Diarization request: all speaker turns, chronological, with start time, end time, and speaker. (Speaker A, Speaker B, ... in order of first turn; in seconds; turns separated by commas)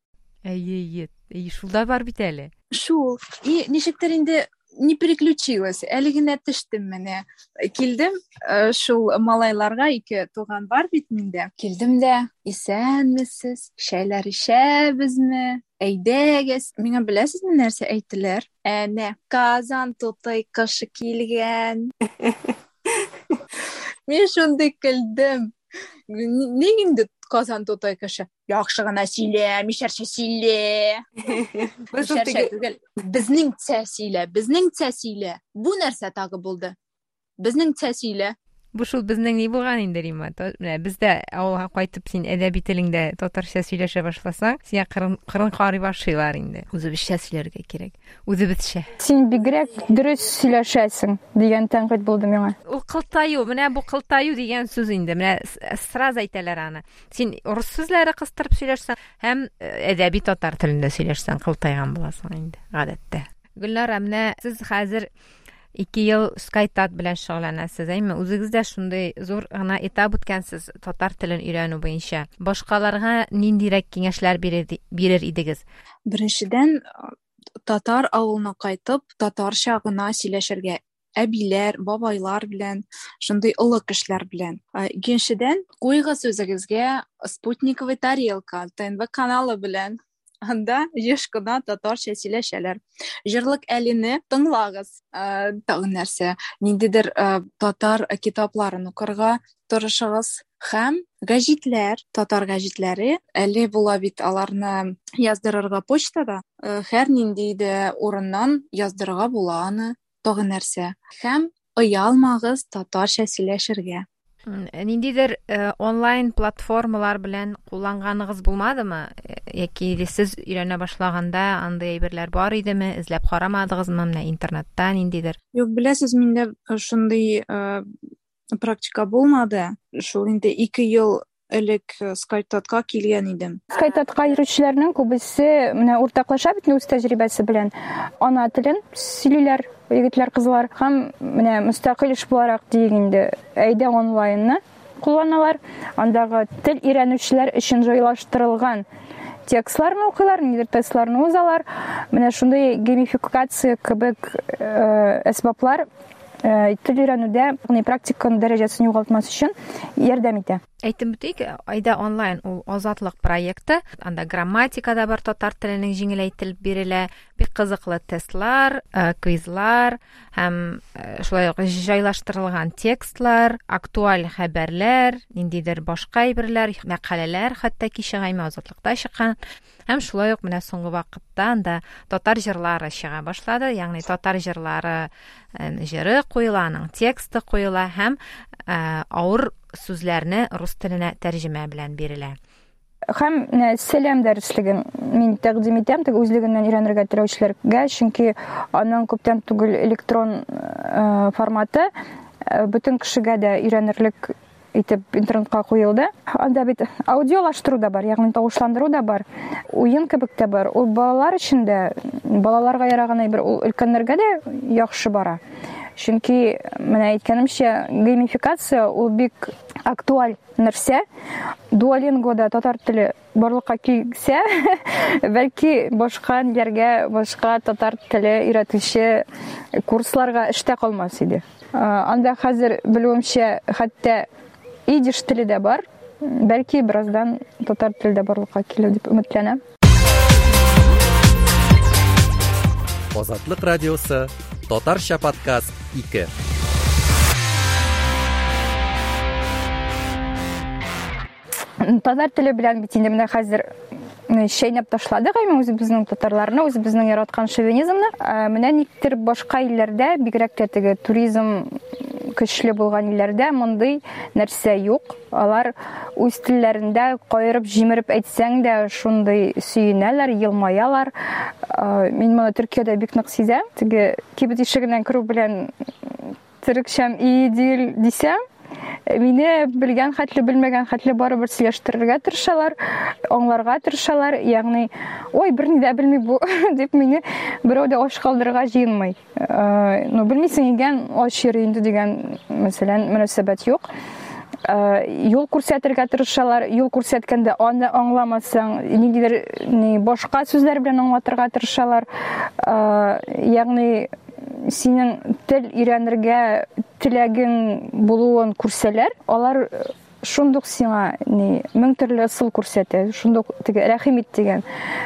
Speaker A: 0.4-2.5, Speaker B: 2.7-21.9, Speaker B: 24.1-25.5, Speaker B: 26.1-36.7, Speaker A: 32.0-32.3, Speaker B: 37.4-38.3, Speaker A: 38.7-48.9, Speaker C: 49.0-52.5, Speaker A: 52.6-65.1, Speaker A: 65.8-75.6, Speaker B: 76.1-76.8, Speaker B: 77.6-114.0, Speaker A: 114.5-125.4, Speaker B: 125.5-127.9, Speaker B: 128.6-133.6, Speaker C: 133.7-148.8, Speaker C: 149.5-155.8, Speaker C: 156.4-160.6, Speaker A: 160.8-179.3, Speaker A: 179.9-192.4, Speaker C: 193.1-201.9, Speaker C: 202.4-215.4, Speaker C: 216.0-221.0, Speaker C: 221.7-229.2, Speaker C: 229.8-234.3, Speaker C: 234.9-239.6, Speaker D: 243.1-246.3, Speaker C: 251.8-253.7, Speaker C: 254.3-278.4, Speaker C: 279.1-293.9, Speaker C: 294.6-314.6